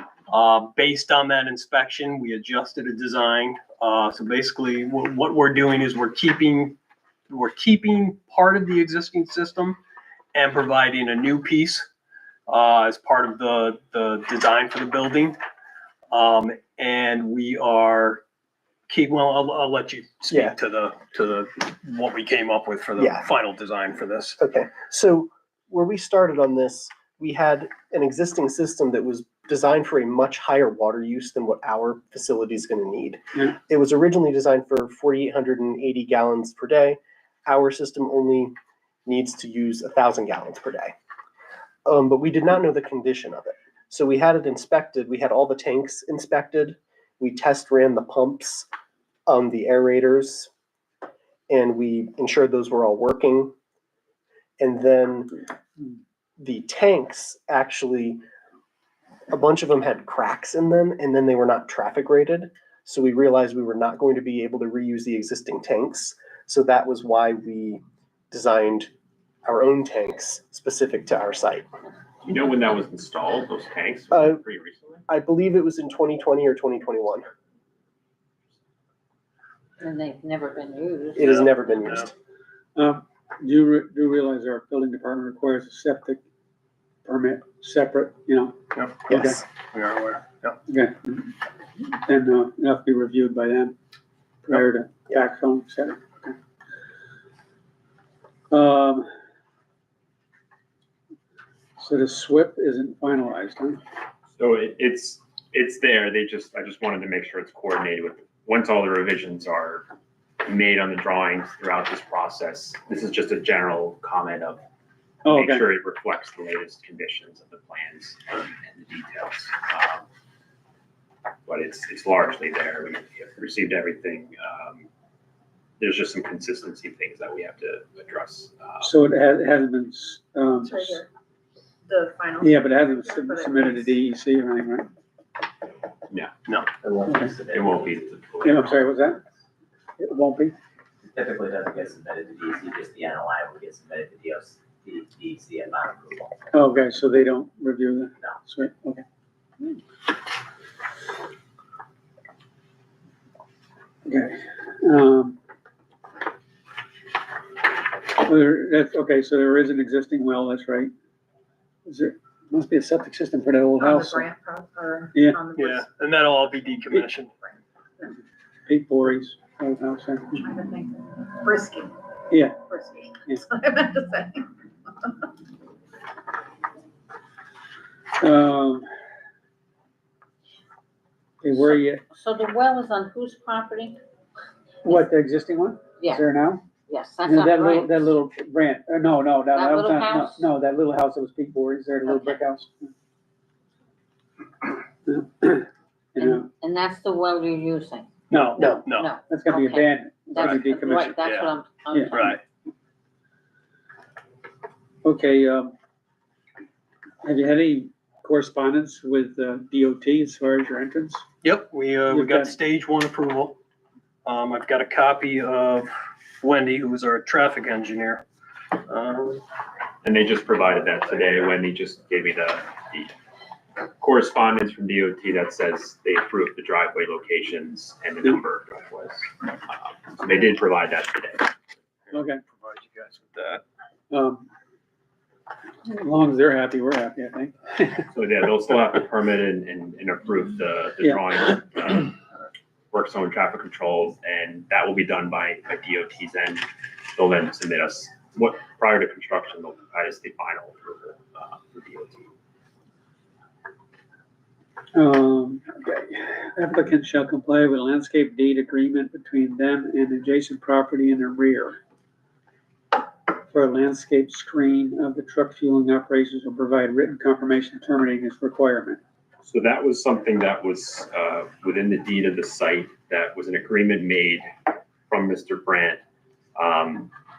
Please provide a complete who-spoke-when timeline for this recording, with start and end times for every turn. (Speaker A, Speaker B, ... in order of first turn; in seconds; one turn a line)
Speaker A: 0.3-6.8
Speaker A: 7.3-9.8
Speaker A: 10.3-11.9
Speaker A: 12.5-15.4
Speaker A: 16.1-18.2
Speaker A: 18.9-24.4
Speaker B: 20.3-20.6
Speaker B: 23.0-23.3
Speaker B: 24.4-38.5
Speaker B: 39.1-41.0
Speaker B: 41.9-48.7
Speaker B: 49.3-50.5
Speaker B: 51.5-53.5
Speaker B: 54.6-55.3
Speaker B: 56.4-58.2
Speaker B: 59.3-68.9
Speaker B: 69.5-71.7
Speaker C: 72.2-75.0
Speaker B: 74.1-74.4
Speaker B: 75.1-77.3
Speaker D: 79.8-81.4
Speaker B: 81.2-82.1
Speaker A: 81.2-82.1
Speaker E: 82.8-86.2
Speaker E: 87.0-88.6
Speaker A: 88.8-90.6
Speaker E: 89.1-89.4
Speaker B: 89.1-89.4
Speaker E: 90.7-93.8
Speaker E: 94.5-96.3
Speaker E: 98.5-99.1
Speaker E: 101.8-103.8
Speaker C: 104.4-109.9
Speaker C: 110.4-114.6
Speaker E: 115.2-115.7
Speaker C: 115.3-120.0
Speaker C: 121.5-124.9
Speaker C: 125.8-128.9
Speaker E: 128.8-131.0
Speaker F: 130.6-131.1
Speaker F: 131.9-134.0
Speaker E: 132.4-134.9
Speaker C: 136.1-136.4
Speaker G: 136.8-137.9
Speaker C: 137.5-138.8
Speaker E: 138.4-139.2
Speaker E: 140.0-140.6
Speaker G: 141.1-146.3
Speaker E: 146.5-149.0
Speaker E: 154.1-155.4
Speaker E: 158.2-160.9
Speaker E: 161.8-164.3
Speaker F: 163.8-168.2
Speaker E: 165.1-165.4
Speaker A: 165.6-167.3
Speaker E: 168.7-170.5
Speaker F: 170.4-171.9
Speaker E: 172.3-172.6
Speaker F: 172.6-175.3
Speaker E: 178.2-178.9
Speaker E: 181.4-182.0
Speaker D: 182.1-184.0
Speaker E: 184.8-186.7
Speaker D: 186.0-186.2
Speaker D: 186.9-188.1
Speaker E: 187.2-192.9
Speaker D: 189.6-190.4
Speaker D: 192.1-192.4
Speaker E: 195.1-195.7
Speaker E: 196.2-196.4
Speaker D: 196.2-202.4
Speaker E: 198.3-201.2
Speaker A: 198.8-199.1
Speaker A: 200.4-201.5
Speaker E: 201.9-202.2
Speaker A: 202.1-202.4
Speaker E: 205.0-205.7
Speaker E: 207.2-211.2
Speaker A: 211.4-213.6
Speaker E: 212.1-212.5
Speaker A: 214.2-215.9
Speaker A: 216.4-218.2
Speaker A: 218.8-219.4
Speaker C: 220.0-223.1
Speaker C: 223.8-231.6
Speaker E: 232.1-232.4
Speaker A: 232.5-233.6
Speaker E: 234.1-234.5
Speaker E: 235.8-238.1
Speaker C: 238.1-242.2
Speaker C: 242.9-252.3
Speaker E: 254.9-261.8
Speaker E: 263.5-269.0
Speaker C: 269.4-274.5
Speaker C: 275.1-276.0
Speaker C: 276.6-277.1